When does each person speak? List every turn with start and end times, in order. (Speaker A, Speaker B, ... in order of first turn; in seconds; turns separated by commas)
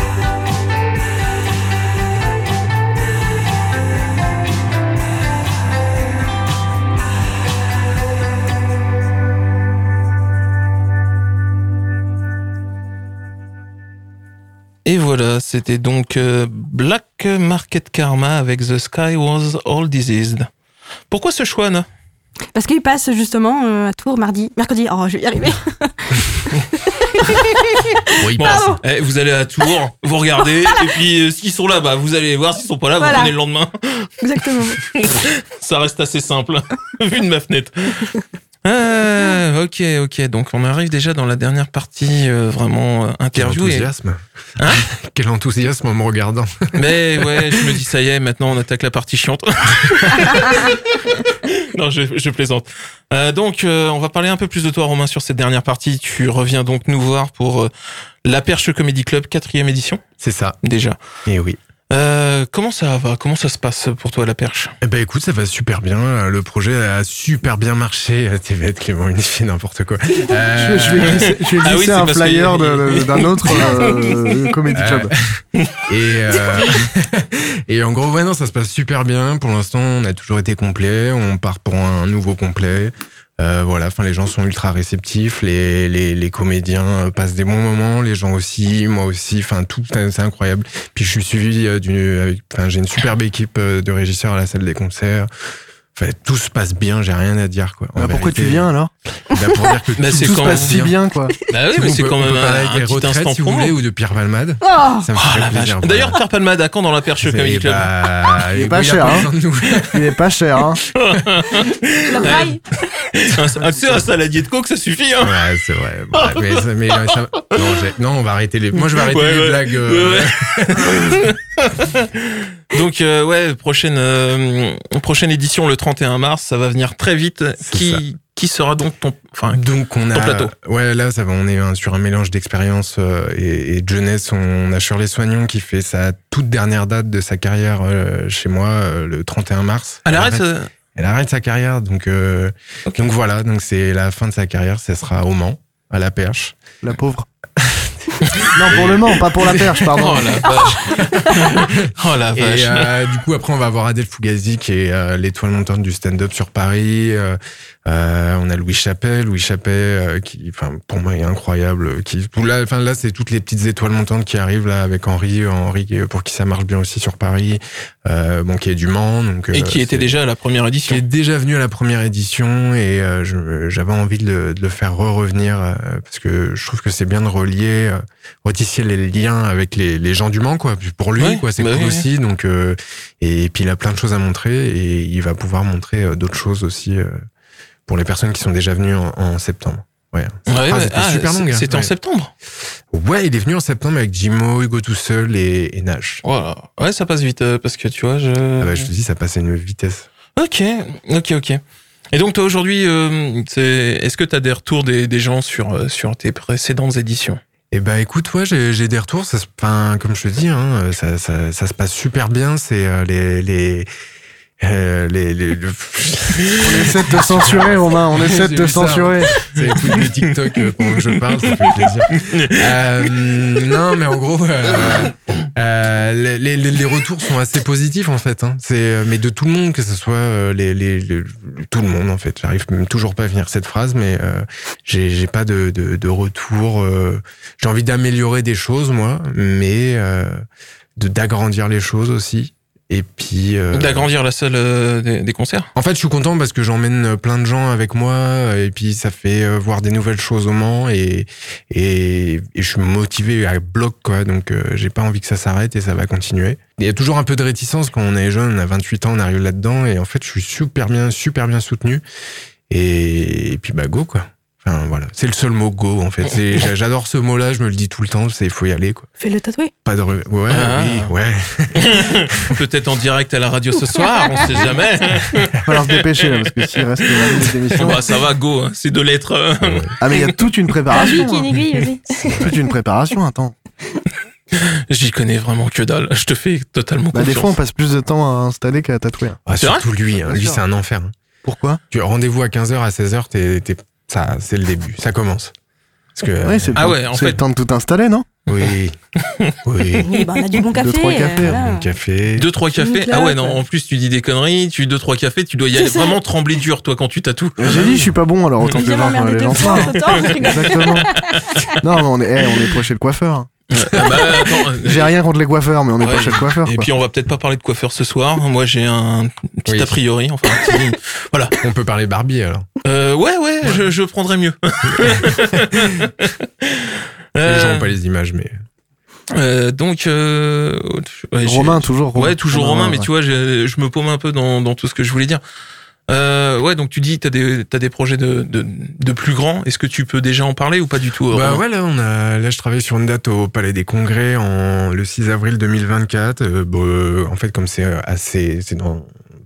Speaker A: 14.8-20.5, Speaker A: 21.1-21.9, Speaker B: 22.5-28.8, Speaker C: 28.2-28.7, Speaker A: 28.3-34.1, Speaker B: 33.0-33.3, Speaker B: 34.2-34.8, Speaker A: 34.8-38.1, Speaker A: 38.6-43.9, Speaker C: 43.3-46.5, Speaker A: 46.7-57.7, Speaker C: 47.2-47.6, Speaker A: 58.2-60.0, Speaker C: 60.2-60.6, Speaker A: 60.6-61.0, Speaker C: 61.3-61.6, Speaker A: 61.9-64.7, Speaker C: 64.8-71.3, Speaker D: 70.5-75.1, Speaker A: 71.1-74.1, Speaker C: 74.7-95.3, Speaker C: 95.9-98.7, Speaker D: 97.9-98.9, Speaker C: 99.3-101.0, Speaker A: 100.0-100.8, Speaker D: 100.1-101.3, Speaker A: 101.5-103.8, Speaker C: 101.7-106.2, Speaker B: 104.6-105.1, Speaker A: 105.2-107.9, Speaker C: 107.2-110.0, Speaker D: 108.5-109.3, Speaker D: 109.9-110.8, Speaker A: 110.9-112.5, Speaker B: 112.1-112.6, Speaker A: 113.1-115.5, Speaker C: 115.2-121.2, Speaker A: 116.1-117.8, Speaker A: 118.7-129.6, Speaker C: 127.6-128.0, Speaker C: 129.5-146.6, Speaker A: 130.1-130.5, Speaker A: 140.1-140.7, Speaker D: 146.8-147.3, Speaker C: 147.6-149.1, Speaker A: 148.3-148.9, Speaker D: 148.5-150.5, Speaker A: 149.5-153.1, Speaker C: 150.6-170.1, Speaker A: 169.5-171.0, Speaker C: 170.9-187.2, Speaker A: 181.2-182.1, Speaker C: 187.9-191.9, Speaker A: 190.5-192.3, Speaker C: 192.9-196.2, Speaker A: 196.2-198.9, Speaker C: 198.6-200.1, Speaker A: 200.4-201.6, Speaker A: 202.1-207.4, Speaker C: 207.7-213.9, Speaker C: 214.6-240.4, Speaker D: 216.6-219.3, Speaker A: 219.4-223.1, Speaker C: 241.0-244.1, Speaker A: 243.7-245.7, Speaker C: 245.8-262.0, Speaker C: 262.7-269.1, Speaker B: 269.2-269.7, Speaker C: 269.8-272.5, Speaker A: 270.5-271.1, Speaker A: 271.8-280.4, Speaker D: 275.6-278.0, Speaker C: 279.6-279.9, Speaker D: 280.0-281.5, Speaker B: 280.9-282.5, Speaker D: 282.3-283.5, Speaker A: 284.5-287.6, Speaker D: 287.1-289.4, Speaker C: 289.5-291.1, Speaker A: 289.6-289.8, Speaker D: 290.2-290.6, Speaker D: 291.4-291.8, Speaker C: 291.9-295.5, Speaker C: 296.1-296.8, Speaker D: 296.4-298.3, Speaker A: 296.8-297.4, Speaker C: 298.5-298.9, Speaker A: 299.3-299.6, Speaker C: 299.6-300.1, Speaker B: 300.0-301.8, Speaker D: 300.8-301.6, Speaker C: 301.4-302.5, Speaker A: 302.4-307.9, Speaker B: 302.8-303.6, Speaker B: 305.8-306.2, Speaker D: 307.6-311.2, Speaker B: 308.7-311.7, Speaker A: 309.7-311.8, Speaker D: 311.8-313.5, Speaker A: 313.7-315.1, Speaker D: 314.7-316.9, Speaker A: 316.0-321.6, Speaker C: 319.7-319.9, Speaker C: 321.6-322.7, Speaker A: 322.8-327.9, Speaker C: 324.9-325.9, Speaker C: 327.4-328.5, Speaker A: 329.3-335.4, Speaker D: 331.4-333.1, Speaker A: 336.1-341.6, Speaker C: 341.3-349.1